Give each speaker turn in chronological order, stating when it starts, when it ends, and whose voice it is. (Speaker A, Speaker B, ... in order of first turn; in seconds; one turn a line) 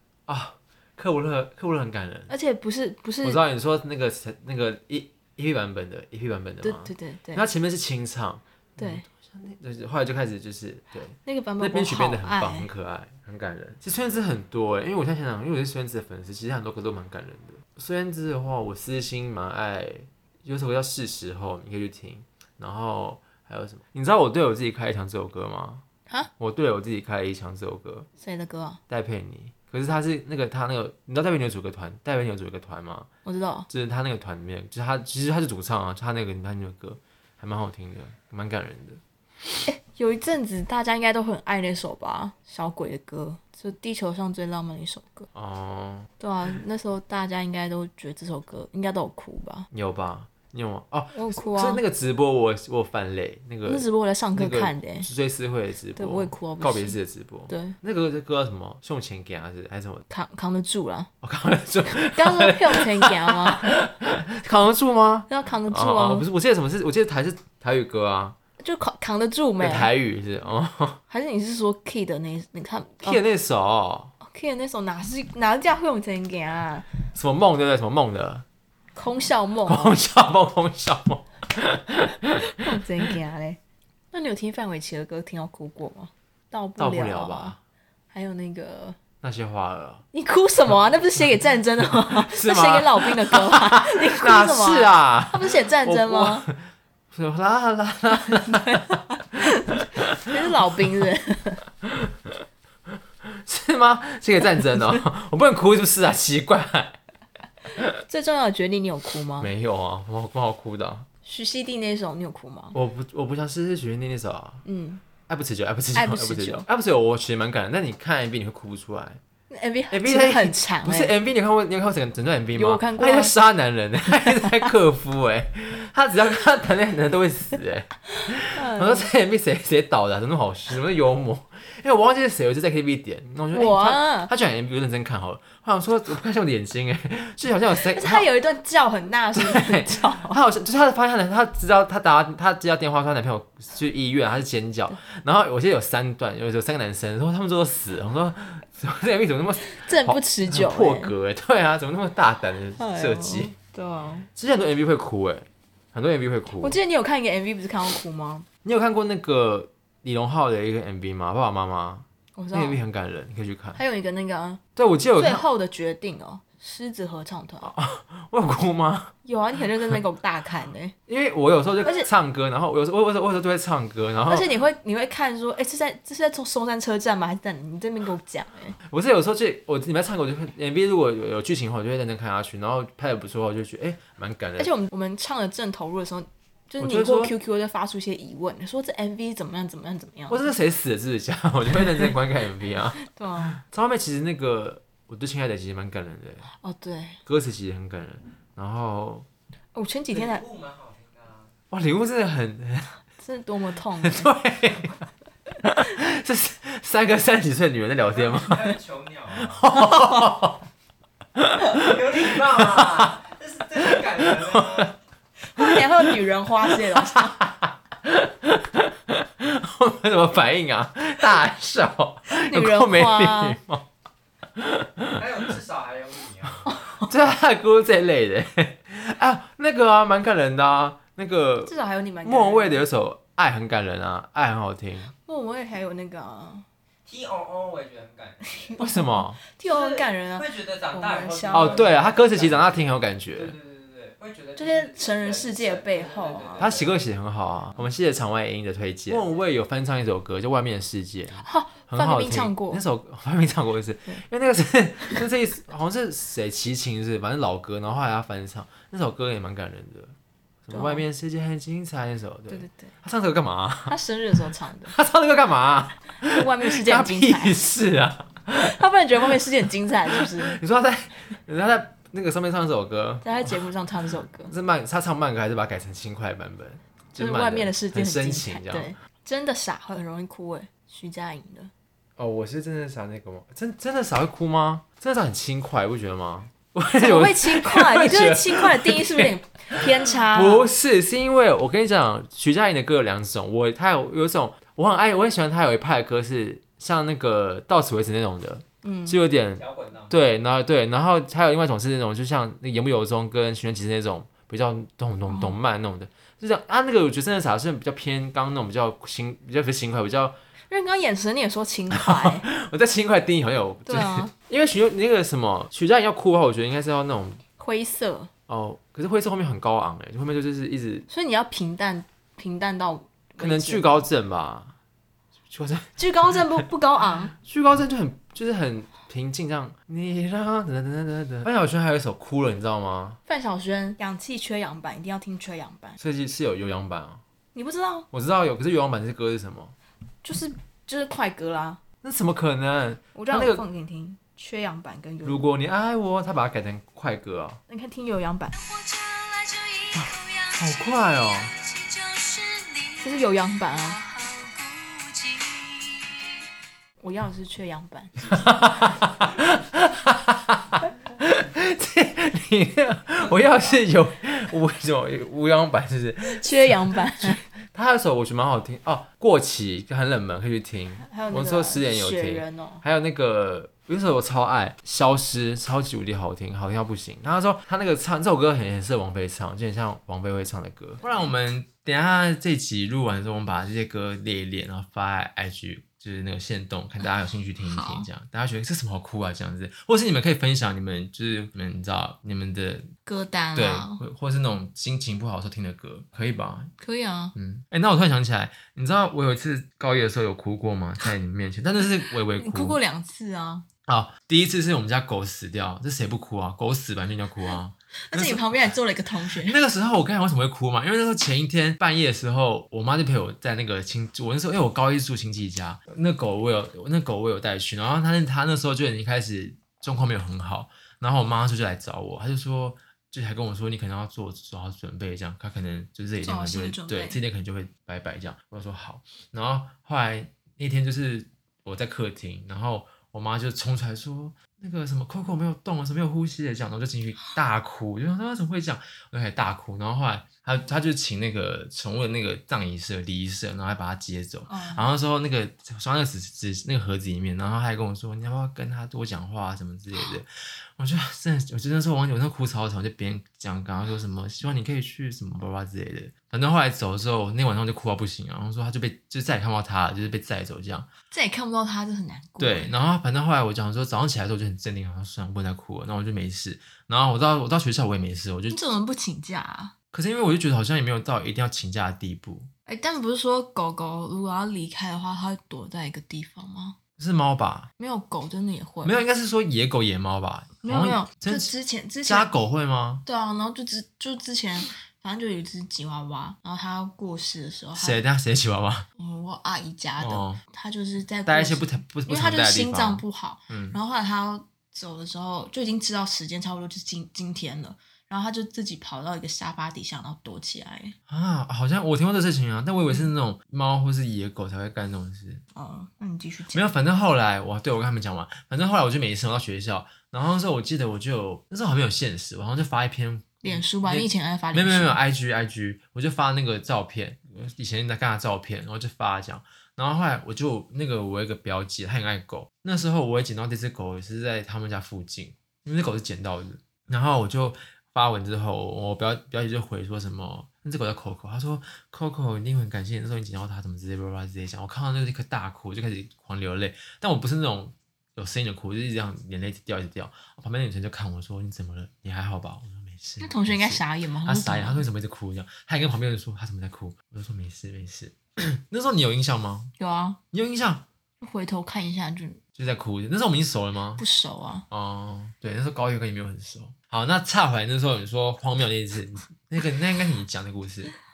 Speaker A: 0.3-2.3
Speaker B: 2.3-3.4
Speaker A: 3.2-25.8
Speaker B: 6.6-7.5
Speaker B: 8.8-9.1
Speaker B: 11.2-12.7
Speaker A: 26.4-28.1
Speaker B: 28.2-28.8
Speaker A: 28.9-33.1
Speaker B: 33.2-33.7
Speaker A: 33.7-39.0
Speaker B: 39.7-45.3
Speaker A: 45.3-46.1
Speaker B: 46.2-49.7
Speaker A: 49.7-60.1
Speaker B: 51.1-51.8
Speaker B: 53.6-55.1
Speaker B: 56.0-57.0
Speaker B: 57.5-57.8
Speaker B: 60.1-61.1
Speaker A: 61.2-68.4
Speaker B: 61.9-63.8
Speaker B: 65.3-66.3
Speaker B: 68.6-69.9
Speaker A: 69.6-71.0
Speaker B: 71.1-73.2
Speaker A: 73.0-74.1
Speaker B: 74.2-76.9
Speaker A: 77.2-78.5
Speaker B: 79.0-80.0
Speaker A: 79.7-82.7
Speaker B: 82.4-83.6
Speaker B: 84.1-87.5
Speaker A: 86.8-87.6
Speaker B: 88.1-89.0
Speaker A: 89.2-90.0
Speaker B: 90.1-96.5
Speaker A: 92.2-96.6
Speaker A: 97.1-99.0
Speaker B: 98.2-101.6
Speaker A: 99.9-100.3
Speaker A: 101.8-102.4
Speaker A: 103.2-107.0
Speaker B: 107.8-109.5
Speaker A: 109.4-111.1
Speaker B: 111.2-112.8
Speaker A: 112.7-114.6
Speaker B: 114.7-115.0
Speaker A: 115.2-119.2
Speaker B: 115.9-116.7
Speaker B: 119.5-121.2
Speaker A: 119.9-138.3
Speaker B: 122.5-123.3
Speaker B: 124.2-124.7
Speaker B: 128.2-129.1
Speaker B: 133.5-134.3
Speaker B: 137.8-140.4
Speaker A: 139.3-153.5
Speaker B: 149.7-151.1
Speaker B: 152.8-154.3
Speaker A: 154.4-156.8
Speaker B: 156.6-158.5
Speaker A: 158.7-163.8
Speaker B: 162.4-162.8
Speaker B: 163.8-164.6
Speaker A: 164.8-165.5
Speaker B: 165.2-167.7
Speaker A: 167.6-169.1
Speaker B: 169.2-170.9
Speaker A: 171.1-174.5
Speaker B: 171.8-172.1
Speaker B: 174.3-178.8
Speaker A: 178.9-184.7
Speaker B: 184.6-190.5
Speaker A: 186.8-187.3
Speaker A: 190.3-193.0
Speaker B: 193.0-193.6
Speaker A: 193.6-196.5
Speaker B: 196.6-197.2
Speaker A: 197.3-199.3
Speaker B: 199.7-200.5
Speaker C: 200.1-201.5
Speaker A: 201.7-202.9
Speaker B: 203.2-204.3
Speaker A: 204.0-205.0
Speaker A: 205.6-210.6
Speaker C: 208.1-209.7
Speaker A: 211.3-213.2
Speaker C: 211.7-215.0
Speaker A: 213.8-214.9
Speaker B: 215.5-217.4
Speaker A: 215.6-215.9
Speaker A: 216.7-223.9
Speaker B: 222.4-223.6
Speaker A: 224.6-225.5
Speaker C: 225.1-226.6
Speaker A: 226.5-235.1
Speaker B: 226.7-227.1
Speaker B: 231.7-232.8
Speaker B: 235.2-236.7
Speaker C: 237.1-238.8
Speaker B: 238.5-241.9
Speaker A: 238.8-239.4
Speaker C: 239.7-247.0
Speaker A: 241.5-243.6
Speaker B: 244.6-246.7
Speaker A: 246.6-263.9
Speaker C: 249.1-249.3
Speaker B: 251.3-252.8
Speaker B: 260.7-261.0
Speaker B: 262.5-262.9
Speaker B: 263.9-264.9
Speaker A: 264.9-269.4
Speaker B: 266.3-267.6
Speaker B: 268.6-270.6
Speaker A: 270.1-273.6
Speaker B: 273.2-274.5
Speaker A: 274.5-278.9
Speaker B: 277.2-281.7
Speaker A: 282.2-310.4
Speaker B: 287.0-290.7
Speaker B: 298.8-299.2
Speaker C: 299.6-300.1
Speaker B: 305.3-305.6
Speaker B: 310.7-312.5
Speaker A: 311.9-317.4
Speaker B: 313.9-314.3
Speaker B: 317.6-318.3
Speaker A: 318.5-321.1
Speaker B: 321.1-324.0
Speaker A: 323.4-324.8
Speaker A: 325.5-326.6
Speaker B: 326.0-327.3
Speaker A: 327.4-333.2
Speaker B: 333.3-336.0
Speaker A: 336.0-337.2
Speaker B: 337.5-338.1
Speaker A: 338.1-339.8
Speaker B: 340.2-341.8
Speaker A: 342.0-343.6
Speaker B: 343.1-345.5
Speaker A: 345.2-347.6
Speaker B: 347.7-348.6
Speaker C: 348.5-356.3
Speaker A: 349.9-351.5
Speaker B: 353.0-354.0
Speaker B: 357.0-358.4
Speaker A: 358.3-392.9
Speaker B: 366.2-367.4
Speaker B: 371.0-372.8
Speaker B: 387.7-388.1
Speaker B: 393.1-394.0
Speaker A: 393.6-396.7
Speaker B: 396.8-397.3
Speaker A: 397.4-402.8
Speaker B: 402.3-403.7
Speaker A: 403.9-408.7
Speaker B: 408.1-409.6
Speaker A: 409.4-460.9
Speaker B: 426.2-427.2
Speaker B: 444.5-444.9
Speaker B: 461.1-462.8
Speaker A: 462.4-468.6
Speaker B: 468.5-469.7
Speaker A: 469.9-472.5
Speaker B: 472.7-476.8
Speaker A: 477.0-477.7
Speaker B: 477.8-479.0
Speaker A: 478.8-481.5
Speaker B: 480.6-482.4
Speaker A: 482.1-483.1
Speaker B: 483.1-488.0
Speaker A: 487.8-488.9
Speaker B: 489.0-501.0
Speaker A: 490.0-490.4
Speaker A: 491.3-493.8
Speaker A: 501.1-505.4
Speaker B: 505.5-506.7
Speaker A: 506.5-549.7
Speaker B: 513.4-515.0
Speaker B: 543.2-544.9
Speaker B: 549.8-550.2
Speaker A: 550.3-550.9
Speaker B: 551.2-552.4
Speaker A: 552.6-554.0
Speaker B: 554.0-554.7
Speaker A: 554.7-560.9